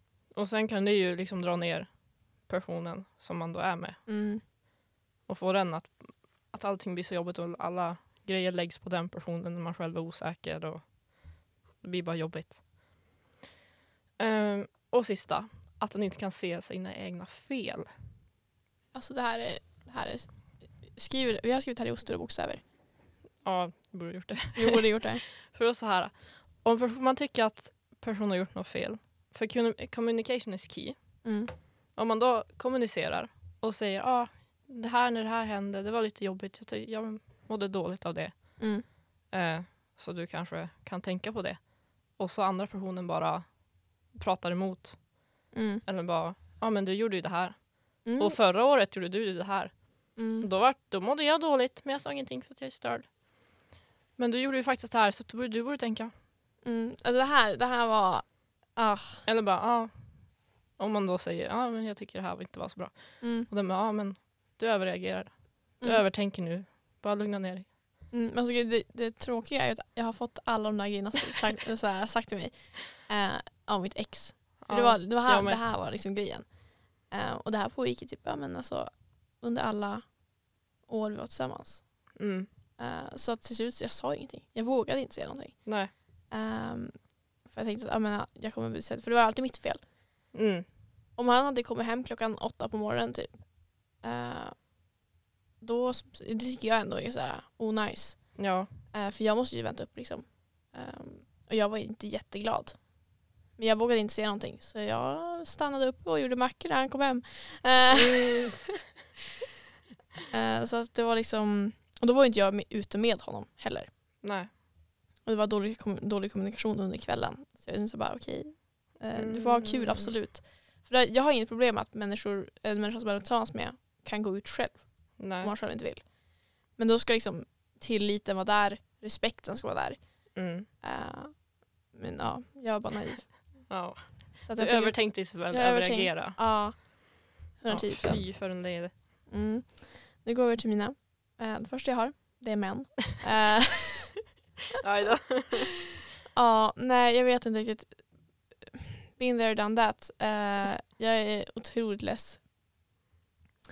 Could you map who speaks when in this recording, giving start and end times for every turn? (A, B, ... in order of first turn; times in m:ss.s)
0:00.3-0:04.0 A
0:04.1-0:04.4 B
0:05.3-0:12.6 A
0:14.2-0:17.9 A
0:18.9-0:22.6 B
0:23.4-0:31.2 A
0:24.6-0:25.2 B
0:31.2-0:31.5 B
0:32.0-0:38.8 A
0:38.6-0:38.8 B
0:39.3-0:53.1 A
0:45.5-0:45.8 B
0:48.0-0:48.4 B
0:50.2-0:50.5 B
0:54.2-0:56.1 A
0:56.6-0:59.2 B
0:59.2-1:07.7 A
1:03.2-1:03.5 B
1:08.1-1:20.2 B
1:14.6-1:15.6 A
1:20.8-1:22.2 B
1:22.2-1:22.5 A
1:22.8-1:29.8 B
1:25.6-1:25.9 A
1:30.3-1:30.7 A
1:31.2-1:34.7 B
1:35.6-1:42.9 B
1:38.4-1:38.7 A
1:43.6-1:48.7 B
1:47.9-1:48.6 A
1:50.3-1:53.9 B
1:54.2-1:54.5 A
1:55.2-2:06.2 B
1:59.2-2:00.1 A
2:05.2-2:05.5 A
2:06.7-2:13.7 B
2:10.4-2:10.7 A
2:13.7-2:16.4 A
2:14.4-2:18.6 B
2:17.7-2:18.9 A
2:19.3-2:24.2 B
2:24.8-2:25.7 A
2:26.3-2:32.4 B